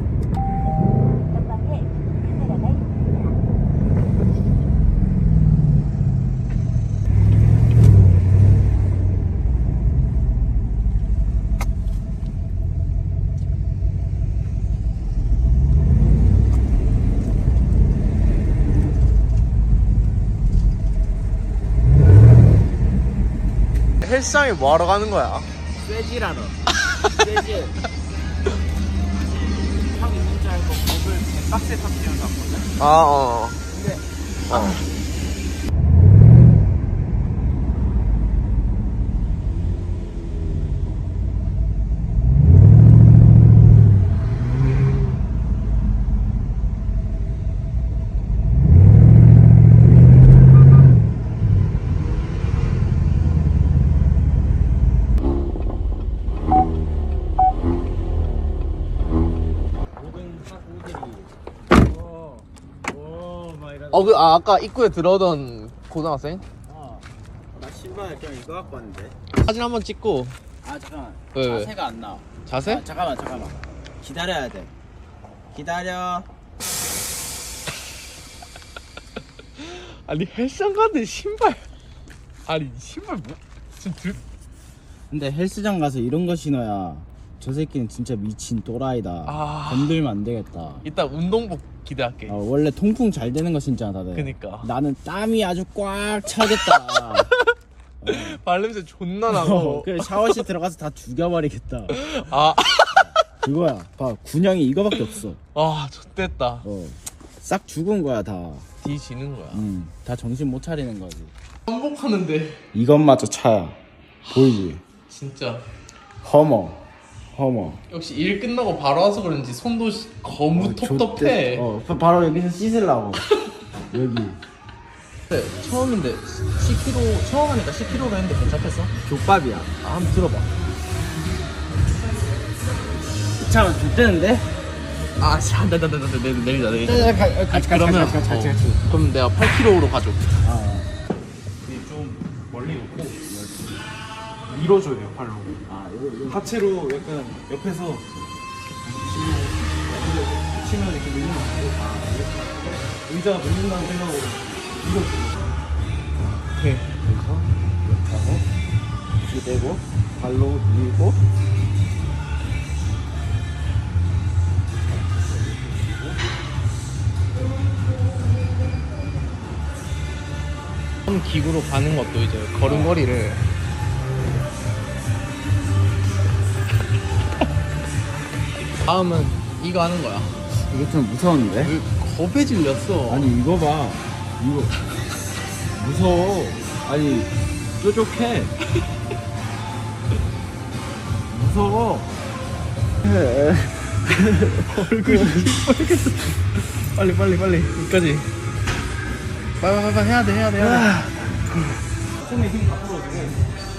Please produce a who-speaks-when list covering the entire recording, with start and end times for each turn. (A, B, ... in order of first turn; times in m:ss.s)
0:24.0-0:25.5 A
0:25.8-0:27.8 B
0:29.1-0:32.8 B
0:32.8-0:33.6 A
0:33.7-0:34.9 B
0:34.5-0:34.8 A
1:00.0-1:04.3 B
1:03.9-1:06.5 A
1:06.6-1:09.2 B
1:09.3-1:10.4 A
1:10.6-1:14.7 B
1:11.3-1:11.7 A
1:12.4-1:12.8 A
1:15.5-1:16.3 B
1:19.6-1:21.7 A
1:22.5-1:24.2 A
1:25.1-1:30.8 B
1:29.3-1:30.0 A
1:30.8-1:32.4 A
1:32.3-1:37.4 B
1:34.2-1:34.7 A
1:36.8-1:37.5 A
1:38.0-1:38.4 B
1:38.0-1:40.4 A
1:39.3-1:42.0 B
1:41.9-1:43.1 A
1:43.0-1:45.4 B
1:45.5-1:46.7 A
1:46.6-1:48.7 B
1:48.8-1:49.6 A
1:49.5-1:51.3 B
1:51.7-1:52.7 A
1:52.7-1:54.8 B
1:54.2-1:55.7 A
1:56.2-1:57.8 B
1:57.9-2:01.7 A
2:00.5-2:03.2 B
2:03.9-2:04.4 B
2:05.3-2:08.9 A
2:09.0-2:09.7 B
2:09.8-2:10.5 A
2:13.4-2:14.5 B
2:15.2-2:20.4 A
2:16.8-2:18.8 B
2:20.4-2:20.9 B
2:21.6-2:23.2 C
2:23.2-2:23.8 B
2:24.5-2:25.6 C
2:25.7-2:26.5 B
2:26.3-2:28.1 C
2:28.9-2:35.5 C
2:36.6-2:36.9 A
2:37.0-2:37.5 C
2:37.2-2:38.4 B
2:39.2-2:41.2 B
2:45.1-2:46.1 B
2:51.1-2:53.5 A
2:52.6-2:53.0 B
2:58.8-3:00.5 A
3:00.7-3:01.8 B
3:01.6-3:03.3 A
3:03.1-3:04.8 B
3:05.8-3:08.6 B
3:11.3-3:12.1 B
3:13.0-3:15.6 B
3:14.6-3:18.3 A
3:19.6-3:21.3 A
3:20.6-3:21.3 B
3:22.2-3:23.4 C